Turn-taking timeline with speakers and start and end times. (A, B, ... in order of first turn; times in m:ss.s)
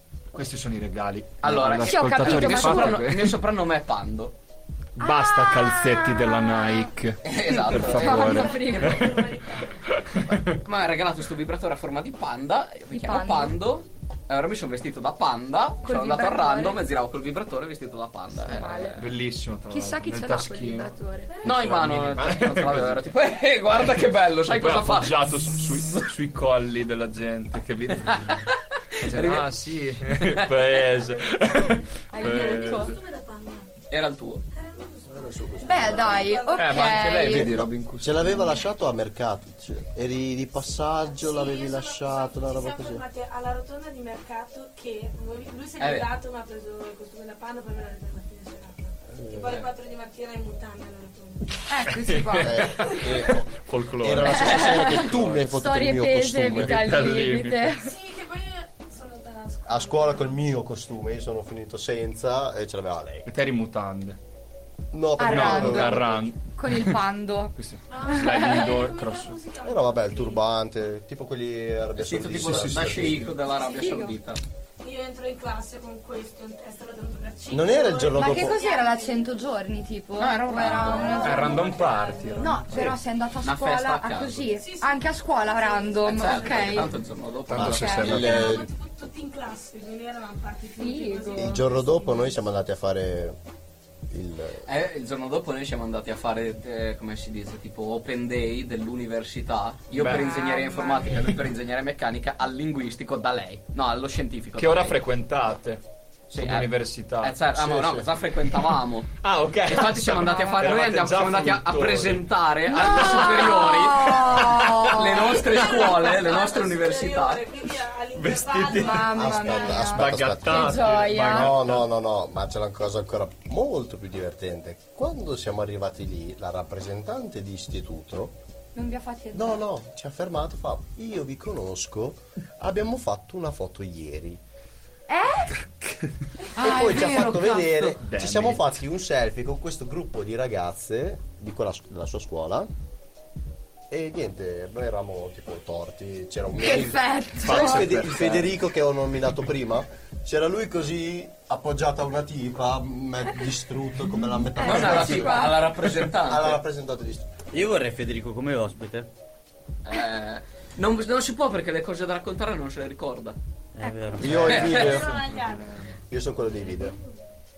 0:00.3-0:03.4 A
0:01.4-0:04.3 B
0:01.5-0:03.1 C
0:05.0-0:09.2 A
0:05.0-0:06.9 C
0:07.2-0:08.5 B
0:07.5-0:09.2 C
0:07.8-0:09.9 D
0:09.9-0:10.6 A
0:10.5-0:19.1 B
0:12.9-0:13.5 C
0:15.8-0:16.8 C
0:18.3-0:19.0 C
0:19.0-0:23.0 A
0:19.7-0:21.3 C
0:21.3-0:21.7 D
0:21.4-0:25.2 B
0:24.5-0:33.0 A
0:29.0-0:29.5 B
0:30.9-0:31.3 D
0:32.1-0:32.9 C
0:32.2-0:33.7 D
0:33.9-0:34.4 B
0:34.5-0:37.2 D
0:35.1-0:36.4 E
0:35.6-0:37.6 C
0:36.6-0:38.6 A
0:37.2-0:43.0 E
0:41.0-0:51.6 D
0:45.8-0:46.1 B
0:49.1-0:49.6 E
0:51.7-0:53.0 C
0:51.9-0:55.5 A
0:52.4-0:57.0 E
0:54.2-0:57.9 C
0:56.4-0:57.7 A
0:57.7-1:00.4 D
0:59.6-1:03.3 E
1:03.3-1:04.2 A
1:04.9-1:06.2 E
1:05.2-1:07.5 C
1:05.2-1:07.0 A
1:07.5-1:09.4 A
1:07.9-1:10.4 D
1:08.1-1:08.6 C
1:09.6-1:13.3 E
1:12.0-1:14.4 B
1:12.3-1:13.3 A
1:13.6-1:14.2 C
1:13.7-1:13.9 D
1:14.8-1:19.5 D
1:17.5-1:18.6 E
1:18.1-1:21.7 C
1:20.2-1:21.4 B
1:20.6-1:22.7 D
1:21.2-1:22.9 A
1:22.4-1:26.9 C
1:23.4-1:24.5 B
1:24.5-1:27.1 D
1:26.0-1:28.1 B
1:27.5-1:28.6 A
1:27.5-1:28.7 E
1:27.6-1:28.4 C
1:28.0-1:32.4 D
1:30.8-1:31.6 C
1:31.4-1:33.4 E
1:34.1-1:34.7 E
1:34.6-1:45.0 B
1:39.9-1:40.3 A
1:40.0-1:41.3 C
1:44.6-1:47.4 A
1:46.3-1:49.1 B
1:47.5-1:48.1 E
1:49.1-1:52.2 A
1:49.6-1:57.7 B
1:50.2-1:50.7 C
1:52.7-1:55.4 C
1:54.3-1:55.0 A
1:55.4-1:59.6 D
1:58.1-1:59.1 A
1:58.7-2:01.5 C
1:59.1-2:08.3 E
1:59.9-2:01.8 A
2:08.7-2:09.6 C
2:09.3-2:14.4 E
2:15.1-2:15.5 C
2:16.5-2:17.7 C
2:16.6-2:22.7 E
2:17.6-2:18.7 A
2:23.9-2:37.3 E
2:26.6-2:27.9 C
2:27.4-2:28.5 A
2:34.6-2:35.7 C
2:34.6-2:36.6 B
2:37.5-2:39.1 F
2:39.8-2:43.4 B
2:43.7-2:44.5 F
2:44.2-2:45.2 E
2:44.2-2:45.8 A
2:44.4-2:45.9 D
2:44.5-2:44.9 B
2:46.1-2:47.0 E
2:46.4-2:47.2 D